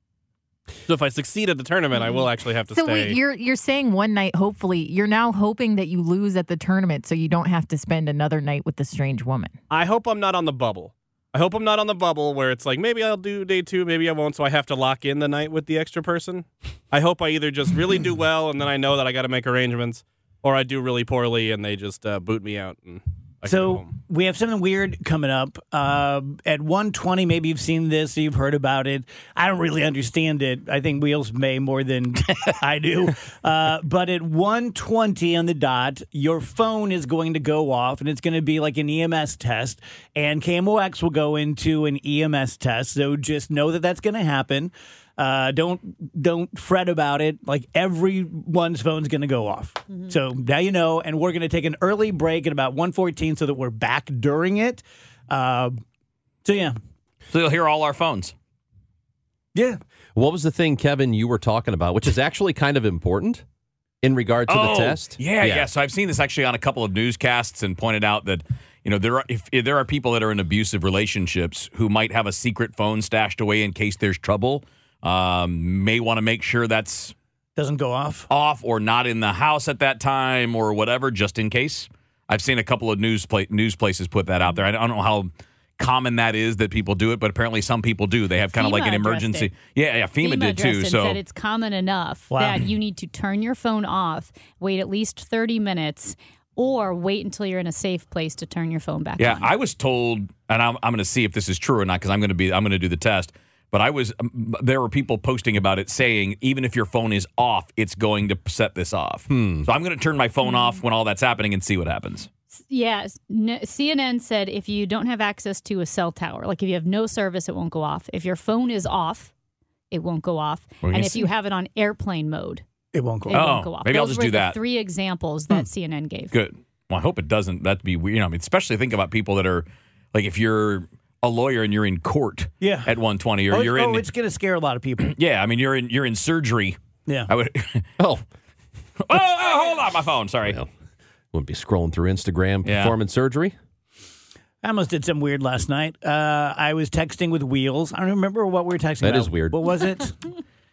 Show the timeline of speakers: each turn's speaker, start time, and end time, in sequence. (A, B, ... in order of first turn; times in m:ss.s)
0:00.9-0:03.2 A
0:02.7-0:09.5 B
0:09.7-0:24.0 A
0:23.4-0:55.8 C
0:56.4-0:56.8 C
0:57.3-0:58.3 D
1:00.2-1:03.4 E
1:04.0-1:05.7 E
1:04.5-1:17.1 D
1:17.6-1:18.3 C
1:18.3-1:31.2 D
1:28.6-1:29.5 F
1:30.2-1:39.5 F
1:32.3-1:32.7 C
1:39.2-1:52.3 D
1:49.3-1:49.7 E
1:50.5-1:50.8 F
1:52.7-1:59.3 F
1:59.9-2:02.6 F
2:00.8-2:01.3 D
2:02.9-2:03.5 C
2:03.3-2:06.4 F
2:03.3-2:04.6 D
2:06.3-2:14.1 D
2:12.6-2:12.9 C
2:13.5-2:15.1 C
2:15.1-2:16.8 D
2:17.3-2:17.9 D
2:18.0-2:18.2 E
2:19.1-2:20.6 D
2:21.3-2:23.6 E
2:22.6-2:23.0 D
2:24.6-2:30.2 C
2:29.0-2:29.7 E